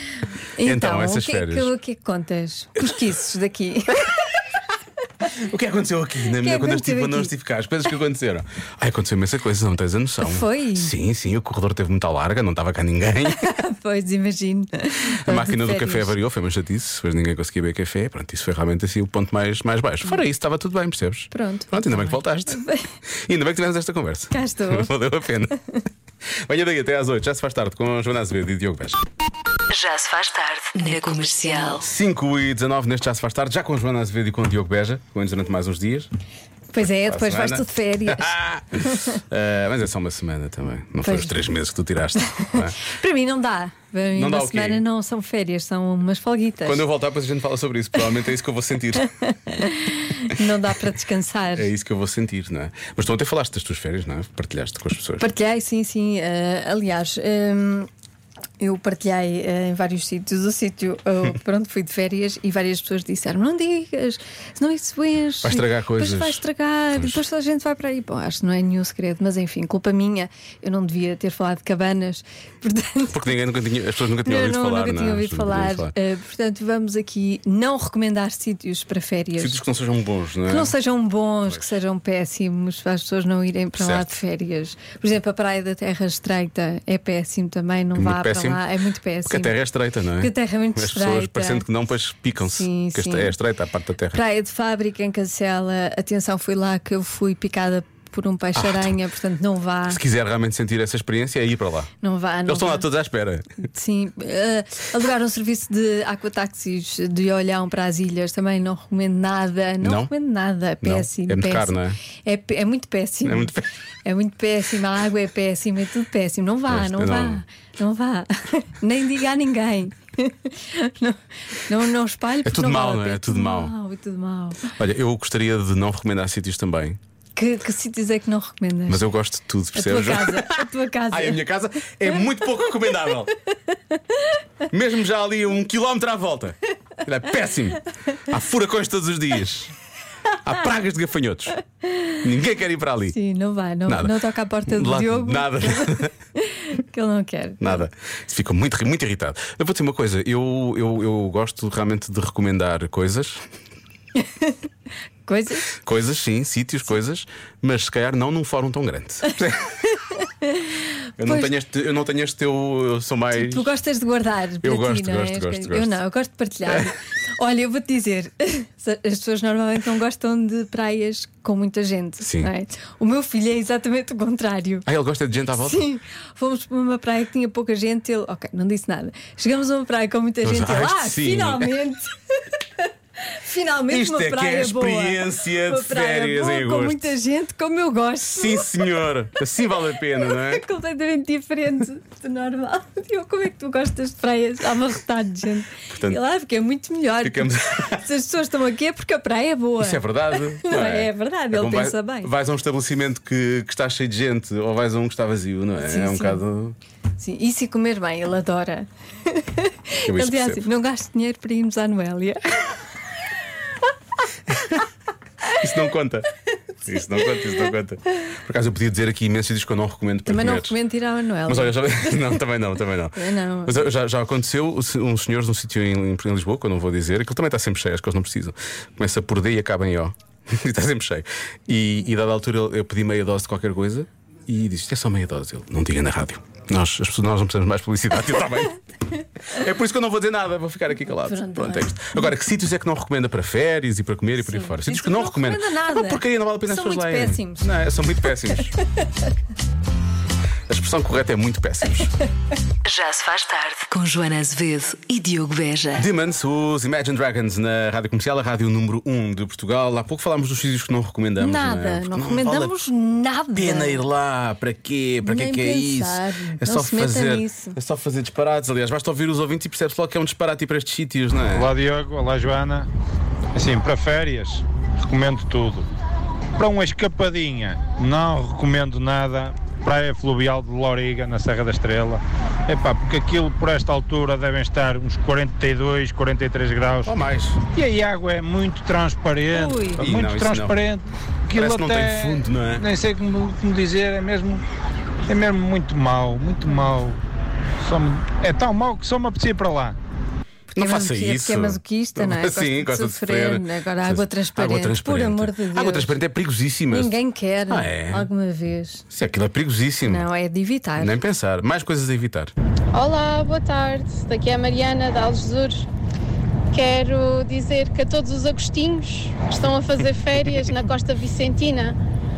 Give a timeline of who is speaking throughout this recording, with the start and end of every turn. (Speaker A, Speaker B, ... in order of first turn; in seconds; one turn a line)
Speaker A: 0.5-4.1
Speaker B: 0.6-1.7
Speaker B: 5.2-13.5
Speaker A: 6.3-7.3
Speaker A: 10.2-10.9
Speaker A: 13.2-16.1
Speaker B: 15.2-22.6
Speaker A: 21.3-22.9
Speaker B: 23.2-25.5
Speaker A: 24.3-24.9
Speaker B: 26.4-29.0
Speaker C: 29.7-31.8
Speaker B: 31.8-36.1
Speaker A: 36.7-39.2
Speaker B: 36.8-42.8
Speaker A: 41.0-41.4
Speaker A: 42.8-46.8
Speaker B: 44.1-44.8
Speaker B: 46.6-49.1
Speaker A: 49.5-51.7
Speaker B: 51.5-55.3
Speaker A: 55.2-57.9
Speaker A: 58.6-73.2
Speaker B: 65.4-67.2
Speaker B: 73.1-75.9
Speaker A: 74.2-79.6
Speaker B: 79.4-80.7
Speaker A: 80.5-89.5
Speaker B: 83.8-84.1
Speaker B: 88.0-88.6
Speaker B: 89.3-94.2
Speaker A: 90.2-91.6
Speaker A: 92.4-93.3
Speaker A: 94.1-100.0
Speaker B: 98.5-98.9
Speaker B: 99.9-101.9
Speaker A: 102.0-102.9
Speaker B: 102.5-103.6
Speaker A: 103.6-113.5
Speaker B: 109.8-110.1
Speaker B: 110.8-112.0
Speaker B: 113.2-113.7
Speaker A: 114.0-124.6
Speaker B: 116.7-117.4
Speaker B: 122.4-123.7
Speaker B: 124.7-127.0
Speaker A: 127.3-129.0
Speaker B: 128.9-133.3
Speaker A: 129.7-131.4
Speaker B: 134.7-139.7
Speaker B: 140.4-141.6
Speaker B: 142.2-143.2
Speaker A: 143.1-147.8
Speaker B: 143.9-144.1
Speaker B: 144.7-146.1
Speaker B: 147.6-153.4
Speaker A: 155.2-155.7
Speaker B: 155.8-159.6
Speaker A: 160.2-161.5
Speaker B: 161.2-163.7
Speaker A: 163.3-174.9
Speaker B: 164.6-166.0
Speaker B: 172.2-172.5
Speaker B: 174.8-175.8
Speaker A: 175.6-182.1
Speaker B: 180.4-181.7
Speaker A: 182.8-188.7
Speaker B: 183.9-187.1
Speaker B: 188.3-190.6
Speaker A: 190.2-202.3
Speaker B: 195.9-196.2
Speaker B: 197.2-198.0
Speaker B: 199.8-206.8
Speaker A: 205.8-206.4
Speaker A: 207.2-212.8
Speaker B: 210.0-210.6
Speaker B: 215.6-216.3
Speaker B: 216.8-220.8
Speaker A: 220.3-222.4
Speaker B: 221.4-238.8
Speaker A: 223.1-223.8
Speaker B: 239.5-248.7
Speaker A: 241.2-242.3
Speaker A: 244.4-247.7
Speaker B: 250.7-252.1
Speaker C: 252.8-256.1
Speaker B: 255.9-262.7
Speaker A: 261.4-264.0
Speaker B: 263.6-271.7
Speaker A: 265.2-267.8
Speaker D: 271.5-272.9
Speaker D: 273.5-275.9
Speaker D: 276.6-287.1
Speaker B: 287.0-287.6
Speaker D: 287.7-294.6
Speaker A: 289.5-290.1
Speaker B: 290.0-290.8
Speaker B: 291.5-292.9
Speaker D: 295.3-297.2
Speaker D: 297.8-299.9
Speaker A: 300.7-306.2
Speaker B: 300.7-307.1
Speaker A: 306.9-309.0
Speaker B: 307.7-308.3
Speaker B: 309.1-310.2
Speaker A: 310.0-311.2
Speaker B: 311.0-312.5
Speaker E: 312.9-315.9
Speaker E: 316.7-321.9